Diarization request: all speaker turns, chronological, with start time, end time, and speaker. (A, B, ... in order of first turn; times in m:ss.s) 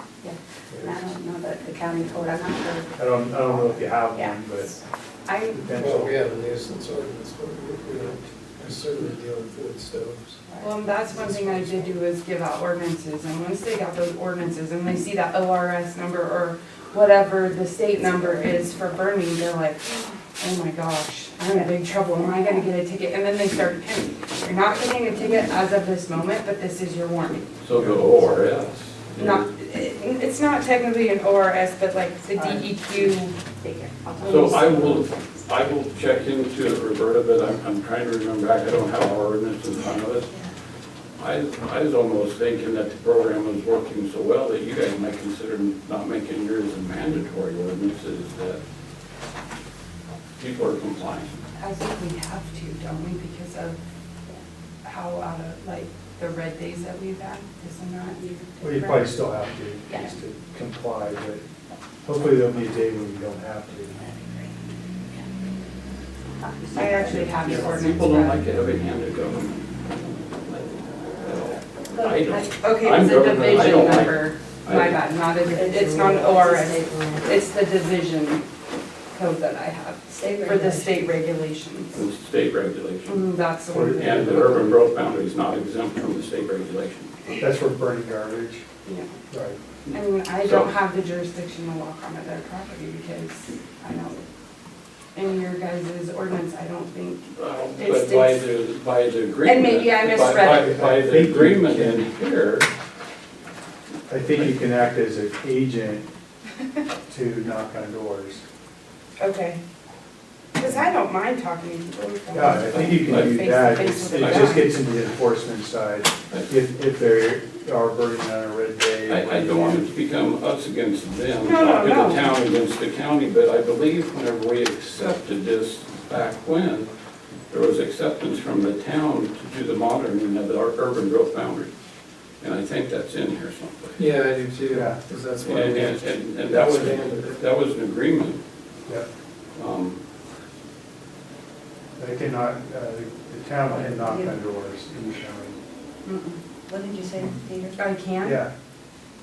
0:00.2-0:04.8 A
0:00.7-0:01.1 B
0:03.0-0:04.8 B
0:05.3-0:05.6 C
0:05.5-0:06.2 B
0:05.8-0:10.4 D
0:10.6-0:27.5 C
0:11.1-0:12.0 D
0:22.2-0:22.6 A
0:27.6-0:29.5 E
0:27.8-0:28.2 B
0:29.2-0:33.4 C
0:32.4-0:32.7 A
0:33.5-0:35.1 A
0:34.2-0:40.3 E
0:34.2-0:34.9 C
0:41.2-0:48.6 E
0:50.4-0:51.4 E
0:51.6-0:53.8 C
0:54.8-0:59.1 C
0:58.6-1:01.4 B
1:02.0-1:04.0 B
1:04.0-1:04.5 A
1:06.4-1:07.2 A
1:06.7-1:08.5 C
1:07.0-1:09.8 E
1:10.5-1:15.0 E
1:11.9-1:12.5 F
1:12.6-1:18.5 C
1:15.4-1:17.4 F
1:19.1-1:22.0 C
1:20.1-1:21.2 F
1:21.9-1:27.2 E
1:23.0-1:24.2 C
1:23.7-1:24.8 B
1:27.4-1:28.6 B
1:28.8-1:29.2 C
1:29.3-1:29.6 B
1:29.9-1:30.7 E
1:29.9-1:34.2 C
1:35.2-1:38.4 C
1:37.4-1:42.7 E
1:39.4-1:40.8 C
1:40.5-1:42.0 B
1:44.1-1:46.1 B
1:47.1-1:48.4 B
1:49.2-1:49.6 C
1:50.6-1:54.7 C
1:50.6-1:50.9 B
1:52.3-1:59.8 B
1:52.7-1:54.6 E
1:59.1-2:06.9 E
2:01.4-2:02.3 C
2:07.5-2:11.7 E
2:12.4-2:14.1 E
2:14.0-2:17.4 D
2:14.7-2:15.0 B
2:15.4-2:18.4 E
2:19.6-2:20.0 E
2:22.0-2:25.6 B
2:23.7-2:24.4 F
2:26.0-2:26.4 C
2:26.7-2:27.8 F
2:27.8-2:28.4 C
2:28.2-2:28.5 B